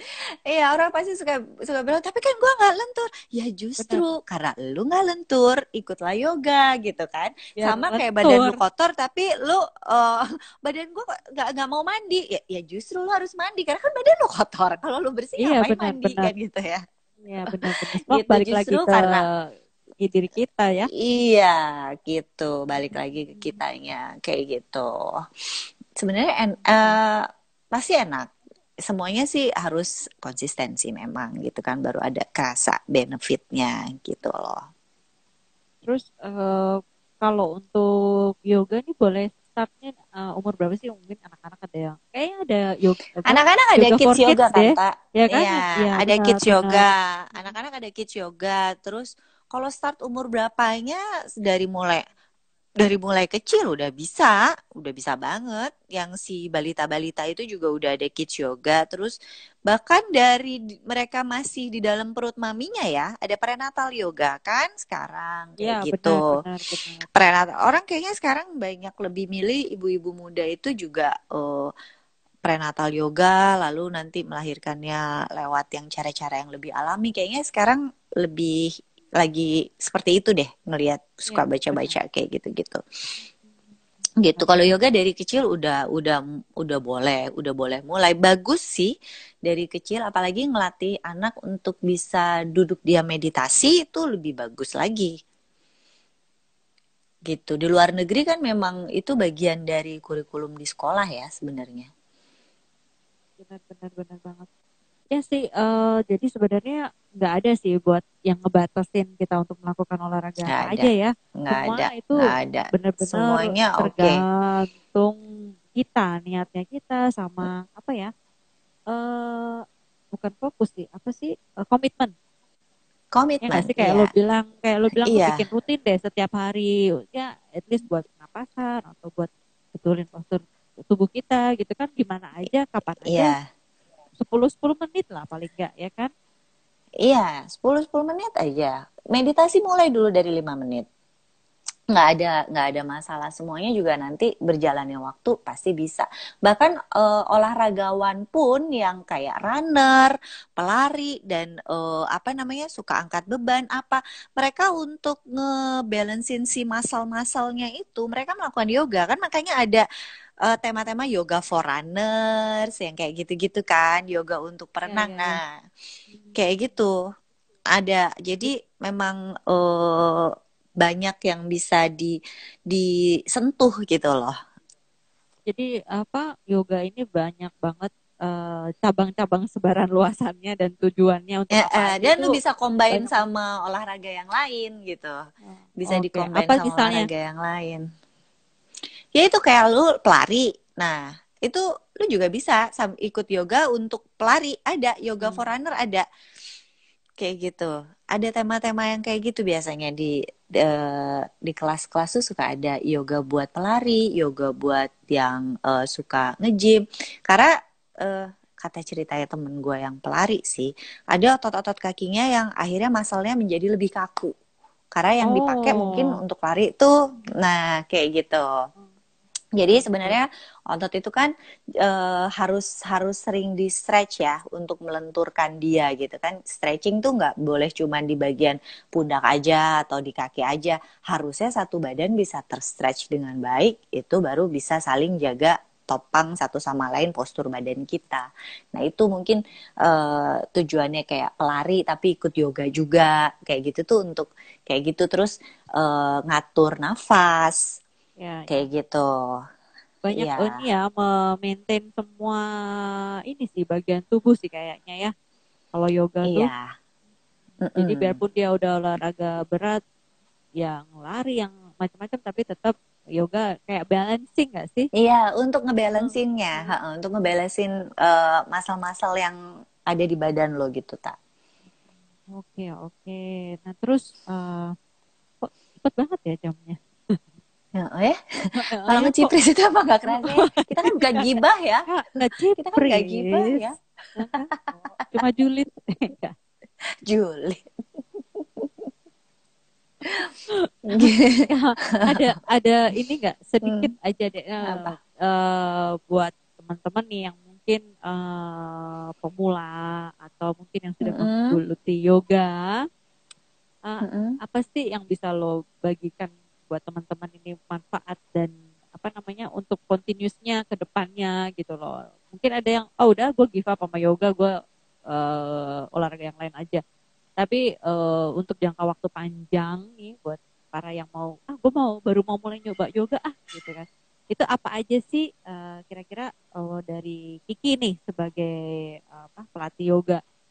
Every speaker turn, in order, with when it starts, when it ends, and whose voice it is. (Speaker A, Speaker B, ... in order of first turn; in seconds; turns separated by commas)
Speaker A: 0.5-16.8, Speaker B: 3.8-4.0, Speaker B: 7.6-8.6, Speaker B: 15.4-16.3, Speaker B: 17.2-19.5, Speaker A: 17.7-19.3, Speaker B: 20.0-20.9, Speaker A: 20.9-25.1, Speaker A: 26.0-28.3, Speaker B: 26.7-27.0, Speaker A: 28.9-34.6, Speaker B: 35.9-37.9, Speaker B: 38.5-46.8, Speaker A: 43.3-52.0, Speaker A: 52.8-59.1, Speaker A: 59.7-66.3, Speaker B: 65.6-67.1, Speaker A: 67.1-71.7, Speaker A: 72.5-78.6, Speaker A: 79.2-82.8, Speaker B: 81.3-82.0, Speaker A: 84.2-88.9, Speaker B: 84.4-84.7, Speaker A: 89.5-95.1, Speaker A: 97.3-101.9, Speaker B: 103.4-104.5, Speaker B: 105.1-115.2, Speaker A: 110.5-110.9, Speaker A: 111.4-114.2, Speaker B: 115.7-118.1, Speaker B: 118.9-122.1, Speaker A: 123.1-124.1, Speaker B: 123.4-133.3, Speaker A: 125.0-125.4, Speaker A: 133.1-133.4, Speaker B: 134.2-136.1, Speaker A: 137.0-140.9, Speaker A: 141.9-159.8, Speaker A: 160.4-165.4, Speaker B: 164.9-165.4, Speaker B: 166.1-166.4, Speaker A: 166.4-167.0, Speaker A: 167.7-172.2, Speaker A: 172.7-174.3, Speaker B: 175.5-182.4, Speaker A: 181.5-185.2, Speaker B: 182.9-183.2, Speaker B: 185.5-187.1, Speaker A: 185.8-187.8, Speaker A: 189.2-196.1, Speaker B: 195.2-195.5, Speaker A: 197.2-207.5, Speaker A: 208.0-214.3, Speaker A: 214.9-218.5, Speaker B: 215.2-216.2, Speaker A: 219.6-247.6, Speaker B: 219.7-220.2, Speaker B: 248.2-248.6, Speaker A: 248.5-249.3, Speaker B: 250.1-252.4, Speaker A: 250.1-250.6, Speaker B: 253.3-255.1, Speaker B: 255.7-256.5, Speaker A: 256.3-256.6, Speaker A: 257.6-258.2, Speaker B: 257.8-259.8, Speaker B: 260.6-264.9, Speaker A: 265.0-269.4, Speaker B: 265.9-266.7, Speaker A: 269.9-271.2, Speaker B: 272.3-274.7, Speaker B: 275.4-277.2, Speaker A: 277.8-278.2, Speaker B: 278.6-279.3, Speaker A: 278.9-281.9, Speaker B: 280.1-281.3, Speaker B: 281.9-283.6, Speaker A: 282.6-283.8, Speaker B: 284.2-286.3, Speaker A: 287.1-287.6, Speaker A: 288.4-288.7, Speaker B: 290.5-302.8, Speaker A: 290.9-292.2, Speaker A: 293.6-293.9, Speaker A: 294.7-295.0, Speaker A: 301.0-301.6, Speaker B: 303.9-314.6, Speaker A: 304.0-304.4, Speaker B: 315.1-316.8, Speaker B: 317.4-330.2